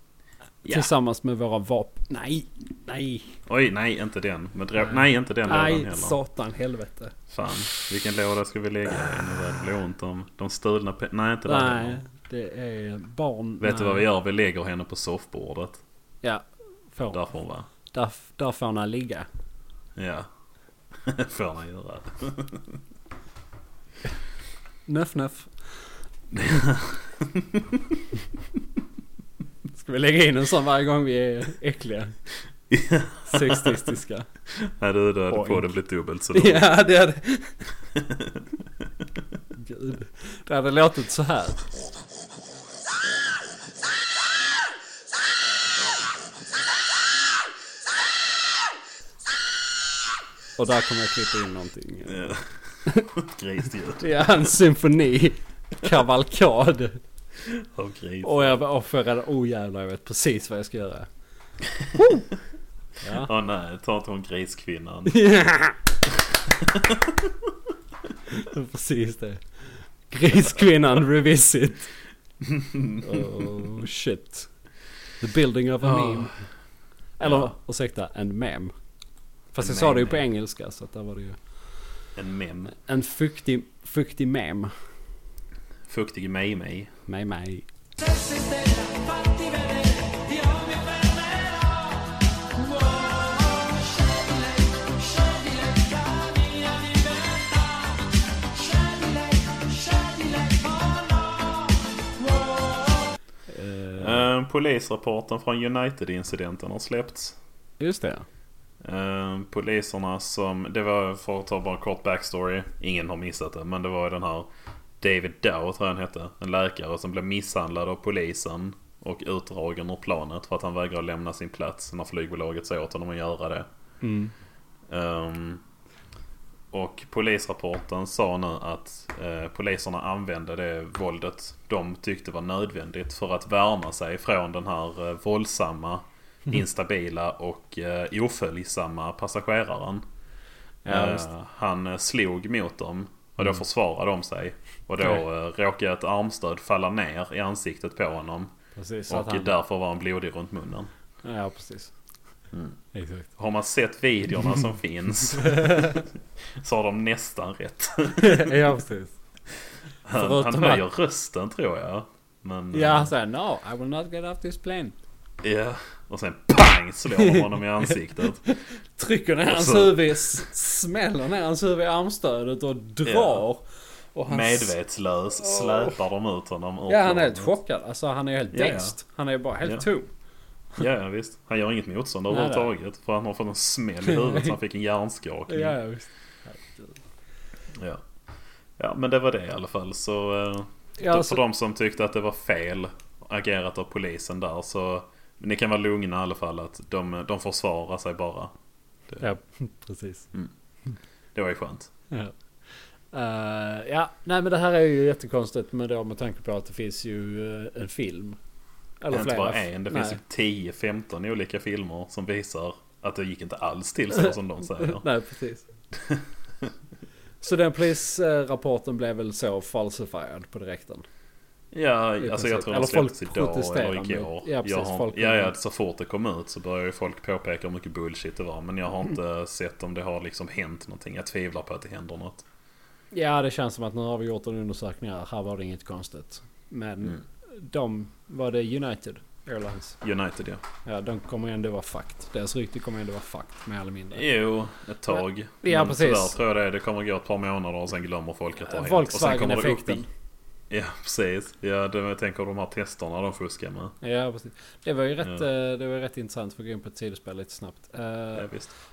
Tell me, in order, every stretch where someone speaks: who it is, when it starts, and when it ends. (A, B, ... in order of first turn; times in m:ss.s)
0:00.6-0:03.4 A
0:03.5-0:06.2 B
0:04.8-0:07.2 A
0:07.3-0:12.0 B
0:11.4-0:14.0 A
0:13.6-0:15.8 B
0:16.2-0:17.2 A
0:17.1-0:17.7 B
0:17.9-0:19.3 A
0:20.0-0:20.3 B
0:20.9-0:22.8 B
0:24.9-0:25.8 A
0:26.3-0:27.7 B
0:29.7-0:32.1 A
0:32.7-0:33.8 B
0:33.2-0:34.3 A
0:34.5-0:36.7 B
0:35.3-0:35.7 A
0:36.3-0:37.7 A
0:38.0-0:38.4 B
0:39.5-0:41.6 A
0:50.6-0:53.1 A
0:52.1-0:52.5 B
0:53.1-0:54.0 B
0:54.0-0:57.0 A
0:57.4-0:58.5 B
0:58.2-1:01.1 A
1:02.0-1:02.2 A
1:03.0-1:03.3 A
1:03.2-1:05.2 B
1:05.1-1:05.8 A
1:06.6-1:07.3 B
1:08.3-1:11.9 A
1:12.4-1:13.2 B
1:13.0-1:14.5 A
1:15.2-1:16.4 A
1:15.8-1:16.3 B
1:17.2-1:18.7 A
1:17.2-1:17.5 B
1:19.5-1:21.4 A
1:19.6-1:20.2 B
1:22.2-1:22.7 B
1:22.7-1:24.7 A
1:25.8-1:26.9 B
1:27.1-1:27.6 A
1:28.0-1:43.2 C
1:43.5-1:44.2 A
1:44.0-1:47.4 B
1:47.8-1:48.2 A
1:48.8-1:54.5 B
1:55.0-2:03.6 B
2:04.0-2:04.3 A
2:04.9-2:05.6 B
2:06.7-2:20.0 B
2:20.8-2:21.3 A
2:20.9-2:28.5 B
2:28.8-2:29.5 A
2:29.1-2:30.9 B
2:31.2-2:31.9 A
2:32.9-2:33.3 A
2:33.4-2:38.5 B
2:35.4-2:36.0 A
2:38.2-2:39.1 A
2:40.0-2:43.1 B
2:40.1-2:40.8 A
2:42.7-2:44.9 A
2:45.4-2:48.5 B
2:48.4-2:54.7 A
2:49.5-2:50.0 B
2:53.0-2:53.4 B
2:54.3-2:57.5 B
2:55.4-2:56.0 A
2:56.9-3:00.1 A
2:58.5-2:59.0 B
3:00.8-3:05.8 B
3:02.3-3:02.7 A
3:04.0-3:04.6 A
3:05.5-3:07.0 A
3:07.7-3:08.0 B
3:08.8-3:18.5 B
3:11.0-3:11.4 A
3:19.2-3:20.3 A
3:21.3-3:21.9 B
3:23.1-3:28.4 A
3:29.0-3:30.2 A
3:29.1-3:35.0 B
3:34.1-3:35.7 A
3:36.0-3:36.7 B
3:37.4-3:41.0 A
3:41.7-3:52.4 B
3:42.2-3:45.5 A
3:53.1-4:00.0 A
4:00.0-4:00.6 B
4:00.8-4:04.2 A
4:04.1-4:10.0 B
4:05.6-4:06.4 A
4:08.6-4:10.1 A
4:10.7-4:13.9 B
4:14.0-4:18.5 A
4:18.4-4:18.7 B